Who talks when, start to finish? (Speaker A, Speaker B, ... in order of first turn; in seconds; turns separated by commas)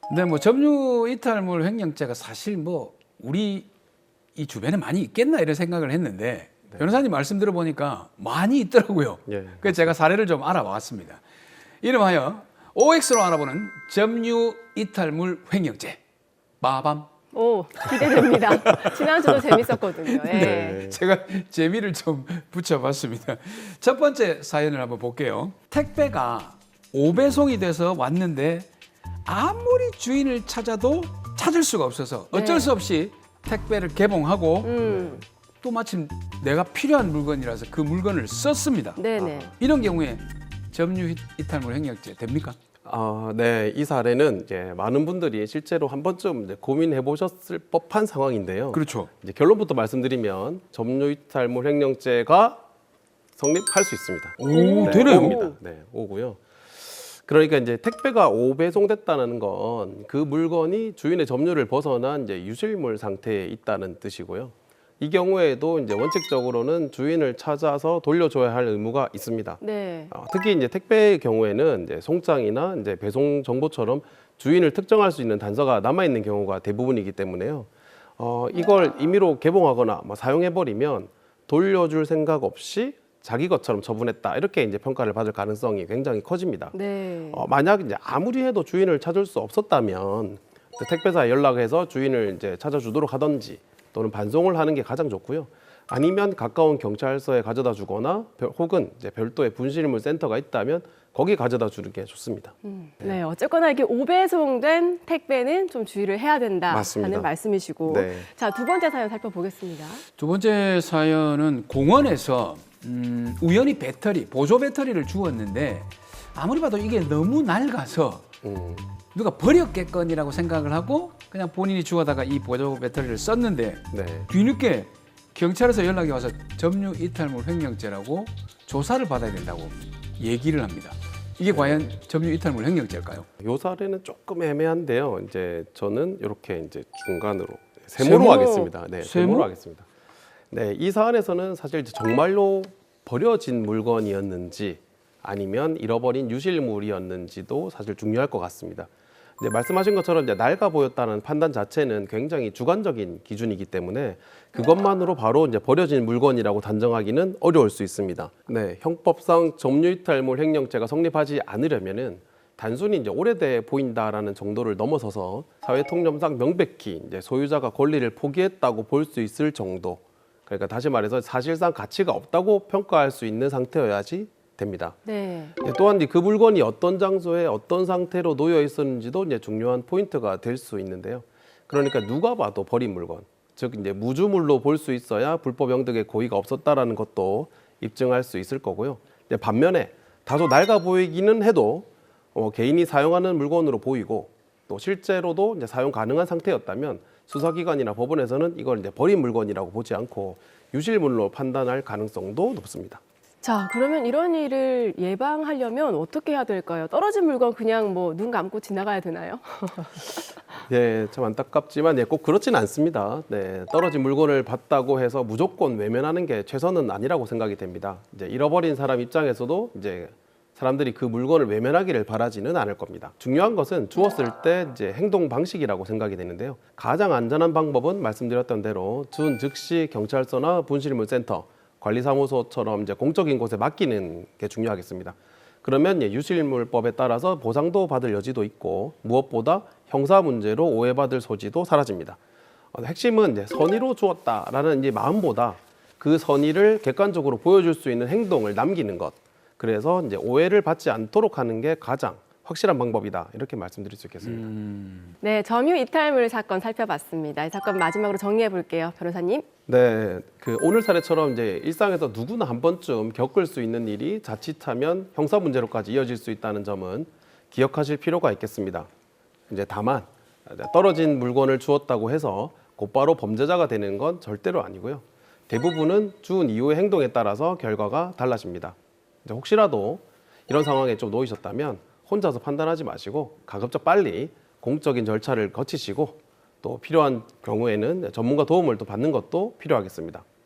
Speaker A: 0.1-3.7, Speaker A: 4.3-11.2, Speaker B: 9.2-9.9, Speaker A: 11.8-16.0, Speaker A: 16.6-17.1, Speaker C: 17.3-20.9, Speaker A: 18.0-28.7, Speaker B: 20.3-21.0, Speaker A: 29.2-34.8, Speaker C: 32.3-32.7, Speaker C: 34.6-35.2, Speaker A: 35.6-39.0, Speaker C: 39.0-39.5, Speaker B: 39.1-39.5, Speaker A: 39.5-42.6, Speaker B: 42.8-52.6, Speaker A: 48.7-49.1, Speaker B: 53.4-86.7, Speaker A: 54.4-55.4, Speaker C: 54.5-55.6, Speaker C: 69.6-70.1, Speaker C: 86.7-87.4, Speaker B: 87.3-103.2, Speaker C: 102.6-110.0, Speaker B: 106.7-107.3, Speaker B: 107.8-108.3, Speaker A: 110.2-118.2, Speaker B: 118.4-118.9, Speaker A: 119.1-133.2, Speaker B: 123.9-124.3, Speaker B: 131.5-131.9, Speaker B: 133.4-139.8, Speaker A: 138.0-139.5, Speaker B: 140.5-175.0, Speaker C: 175.1-175.6, Speaker B: 175.6-203.0, Speaker C: 203.4-210.2, Speaker B: 210.7-242.2, Speaker B: 242.7-254.5, Speaker A: 254.2-255.1, Speaker C: 255.2-259.4, Speaker B: 259.7-268.9, Speaker B: 269.5-290.2